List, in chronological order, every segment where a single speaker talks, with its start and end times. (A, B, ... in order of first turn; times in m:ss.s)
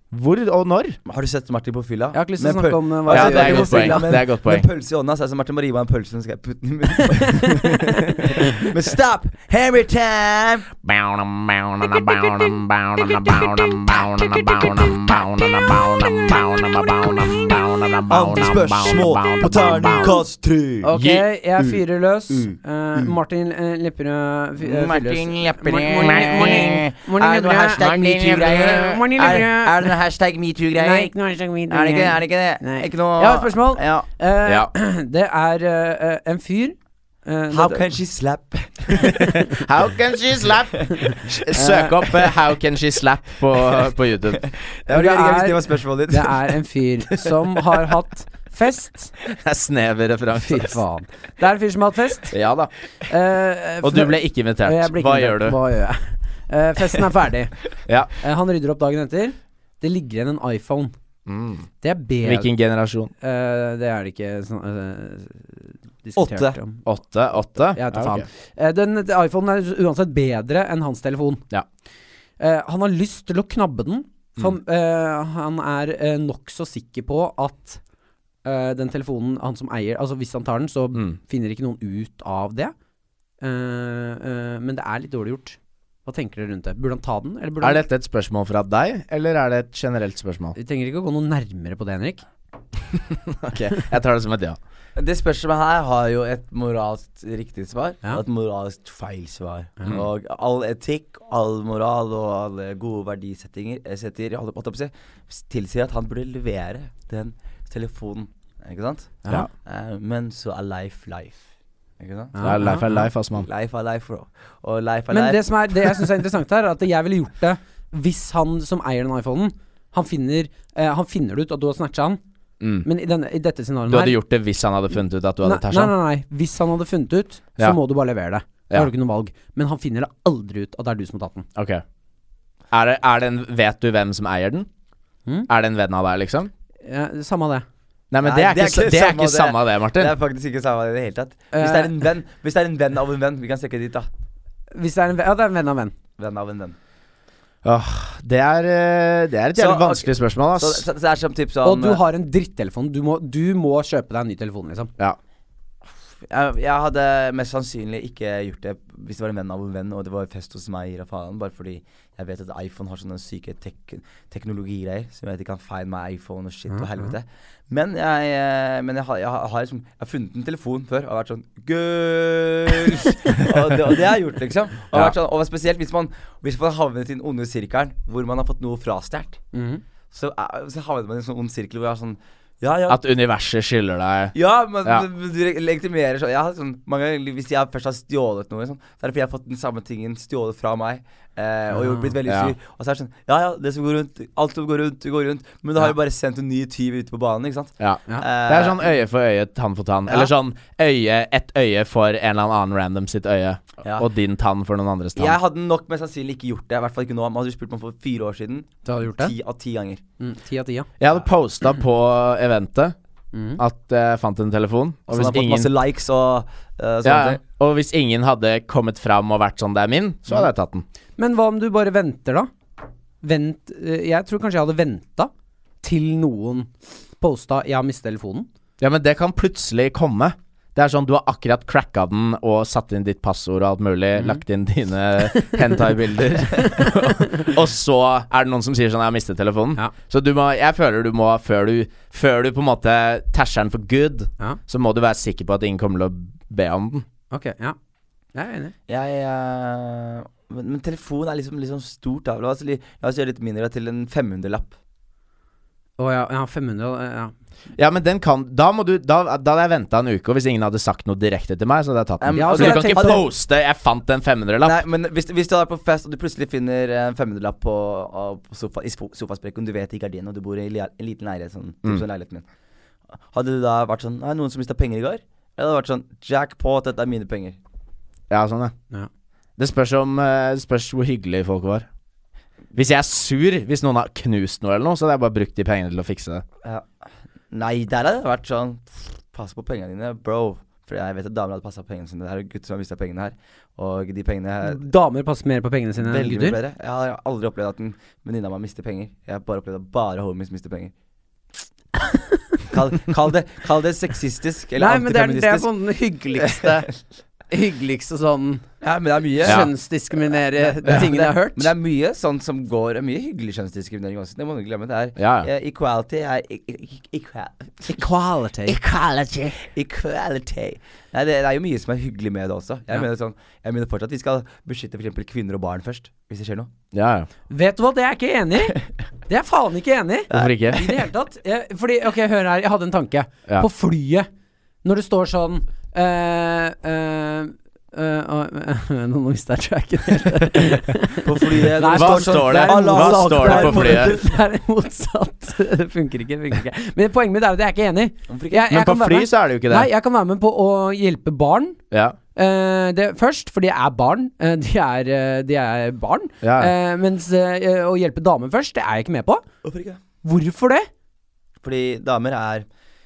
0:00.1-0:01.0 A
0:01.1-0:10.7 B
0:02.1-0:04.1 C
0:03.1-0:04.7 A
0:07.1-0:08.5 C
0:10.8-0:20.2 A
0:18.1-0:20.9 B
0:20.8-0:27.9 C
0:20.9-0:21.3 A
0:24.8-0:31.1 B
0:25.1-0:25.4 A
0:26.0-0:26.9 A
0:27.8-0:29.3 A
0:28.4-0:29.9 C
0:30.8-0:37.9 C
0:31.7-0:34.1 B
0:37.5-0:39.4 B
0:39.0-0:44.4 A
0:39.2-0:39.5 C
0:40.7-0:42.3 B
0:41.5-0:41.9 C
0:44.4-0:46.5 B
0:44.9-0:49.1 C
0:49.2-0:50.8 A
0:50.3-0:52.4 C
0:52.3-0:52.7 A
0:53.1-0:57.6 C
0:53.8-0:55.6 A
0:58.2-1:00.9 C
1:01.3-1:01.7 A
1:01.8-1:02.5 C
1:02.2-1:03.1 A
1:03.2-1:05.5 C
1:06.0-1:06.8 C
1:06.2-1:06.6 B
1:06.9-1:08.3 A
1:07.7-1:11.4 C
1:12.4-1:17.8 C
1:18.4-1:22.7 C
1:23.4-1:27.8 C
1:27.6-1:30.6 A
1:30.6-1:32.2 C
1:32.9-1:34.6 A
1:35.0-1:51.4 B
1:52.0-1:56.0 B
1:52.4-1:53.1 C
1:52.4-1:53.5 A
1:55.1-2:02.2 C
2:02.6-2:02.9 A
2:02.8-2:04.2 C
2:03.9-2:05.9 A
2:05.4-2:11.5 C
2:11.6-2:11.8 A
2:12.7-2:14.7 A
2:15.5-2:16.5 A
2:16.8-2:17.6 C
2:18.1-2:20.1 A
2:18.2-2:24.1 B
2:21.5-2:21.9 C
2:24.7-2:26.0 C
2:26.2-2:26.8 B
2:27.6-2:30.9 A
2:29.6-2:32.0 B
2:31.6-2:34.9 C
2:36.3-2:59.4 B
2:46.7-2:47.1 C
2:59.5-2:59.8 C
3:00.1-3:03.0 B
3:02.9-3:05.1 A
3:04.4-3:18.9 B
3:11.7-3:12.1 C
3:12.2-3:12.5 A
3:17.8-3:25.4 A
3:25.2-3:30.0 B
3:28.8-3:29.3 C
3:30.2-3:30.9 C
3:31.0-3:33.0 A
3:33.3-3:33.6 C
3:33.6-3:35.7 A
3:35.1-3:37.4 B
3:37.0-3:40.9 A
3:41.2-3:42.5 C
3:43.2-3:45.3 C
3:45.8-3:48.5 C
3:48.8-4:07.1 A
3:56.6-3:57.5 C
4:07.3-4:07.8 C
4:08.4-4:08.7 C
4:08.9-4:14.7 B
4:16.0-4:17.3 C
4:17.8-4:24.8 A
4:22.2-4:23.3 B
4:22.3-4:23.2 C
4:24.6-4:32.4 B
4:33.3-4:37.6 B
4:38.3-4:38.7 A
4:39.6-4:41.9 A
4:42.8-4:46.4 A
4:47.5-4:54.8 B
4:54.6-4:56.6 C
4:56.0-5:00.9 B
5:02.0-5:02.4 C
5:02.7-5:05.7 B
5:04.8-5:06.9 C
5:06.4-5:06.9 B
5:07.5-5:08.6 C
5:08.8-5:09.7 B
5:09.4-5:11.7 C
5:09.4-5:09.7 A
5:10.6-5:18.1 B
5:15.2-5:15.5 A
5:17.9-5:18.8 C
5:18.8-5:19.5 A
5:19.5-5:26.7 B
5:26.9-5:27.3 A
5:27.5-5:34.3 C
5:30.3-5:31.0 B
5:30.3-5:30.8 A
5:34.8-5:51.8 C
5:41.2-5:44.4 B
5:41.9-5:44.2 A
5:48.3-5:48.7 B
5:48.7-5:49.9 A
5:51.9-5:52.2 A
5:52.4-5:59.4 C
5:56.4-5:56.7 A
5:59.6-6:00.0 B
6:00.2-6:00.9 C
6:01.6-6:02.7 B